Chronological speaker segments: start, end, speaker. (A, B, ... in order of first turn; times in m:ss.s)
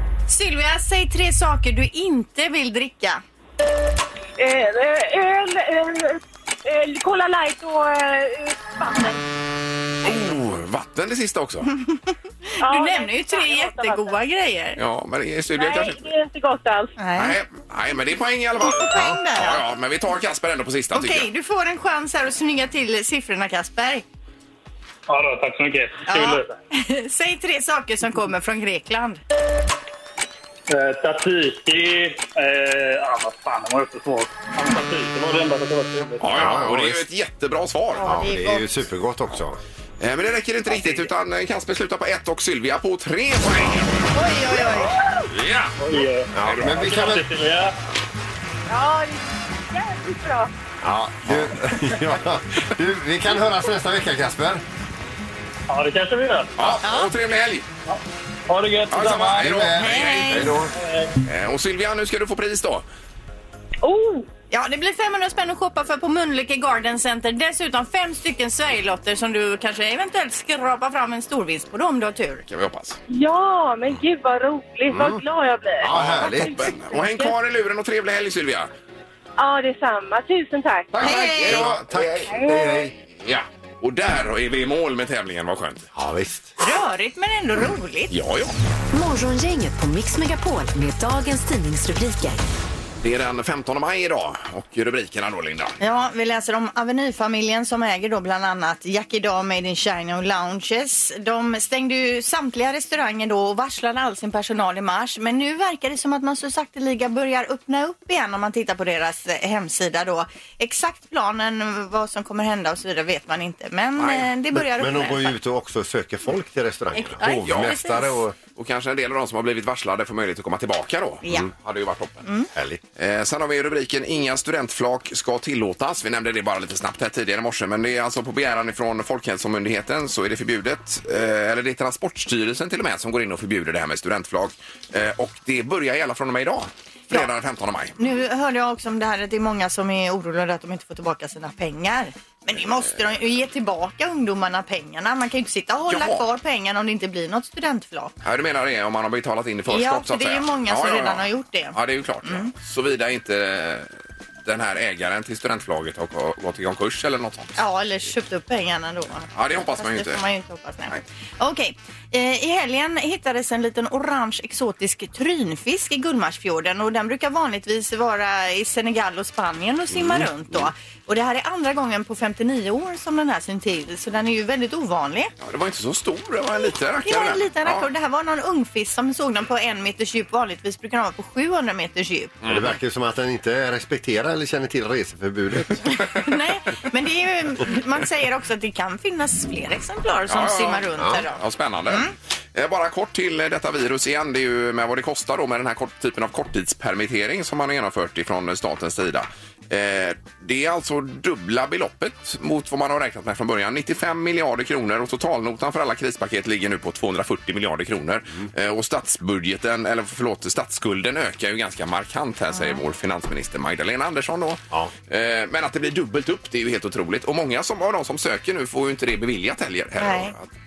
0:00.3-0:03.2 A
0:04.4-0:09.2 B
0:10.0-0:11.7 C
0:11.7-0:14.8 A
0:12.6-0:14.2 B
0:14.8-0:16.0 C
0:15.6-0:17.0 B
0:17.0-0:17.4 A
0:17.2-0:21.3 C
0:18.6-0:19.6 A
0:20.9-0:24.0 A
0:25.1-0:26.6 D
0:26.1-0:29.2 A
0:30.7-0:36.4 D
0:36.2-0:38.2 C
0:36.3-0:37.0 E
0:38.0-0:38.7 A
0:38.0-0:39.6 E
0:40.0-0:44.1 C
0:40.7-0:41.1 D
0:44.1-0:45.0 A
0:45.3-0:45.8 C
0:45.8-0:47.8 D
0:46.3-0:47.3 E
0:46.4-0:47.0 C
0:48.7-0:50.5 B
0:50.8-0:54.6 E
0:55.7-0:56.8 D
0:56.6-0:57.7 C
0:56.8-0:57.1 A
0:57.9-0:59.5 D
0:58.9-1:00.6 C
0:59.4-1:00.7 E
0:59.8-1:00.6 A
1:00.7-1:01.2 D
1:01.2-1:02.8 C
1:03.8-1:04.3 B
1:04.5-1:12.4 A
1:12.5-1:13.0 C
1:13.1-1:17.3 B
1:14.9-1:15.2 E
1:15.8-1:16.6 E
1:15.9-1:18.7 C
1:19.4-1:20.9 B
1:20.9-1:22.3 C
1:21.0-1:23.0 E
1:21.0-1:21.6 A
1:22.3-1:22.8 B
1:23.1-1:25.9 C
1:25.9-1:26.5 E
1:26.6-1:28.1 A
1:28.1-1:28.5 C
1:28.9-1:32.4 F
1:33.0-1:35.8 C
1:35.8-1:55.3 A
1:54.6-1:58.4 E
1:57.0-1:58.2 A
1:57.4-1:57.8 C
1:58.6-2:02.2 C
2:02.2-2:02.5 A
2:02.6-2:02.8 E
2:03.0-2:18.0 C
2:18.0-2:28.1 A
2:25.9-2:26.2 C
2:28.2-2:33.9 C
2:29.7-2:32.5 A
2:34.4-2:37.6 C
2:37.6-2:55.3 A
2:39.3-2:40.2 C
2:50.0-2:50.7 E
2:55.4-2:57.9 C
2:57.0-3:02.4 A
3:02.4-3:02.8 C
3:02.5-3:05.9 E
3:05.9-3:12.1 A
3:10.3-3:40.5 C
3:32.5-3:32.8 A
3:40.0-3:40.4 A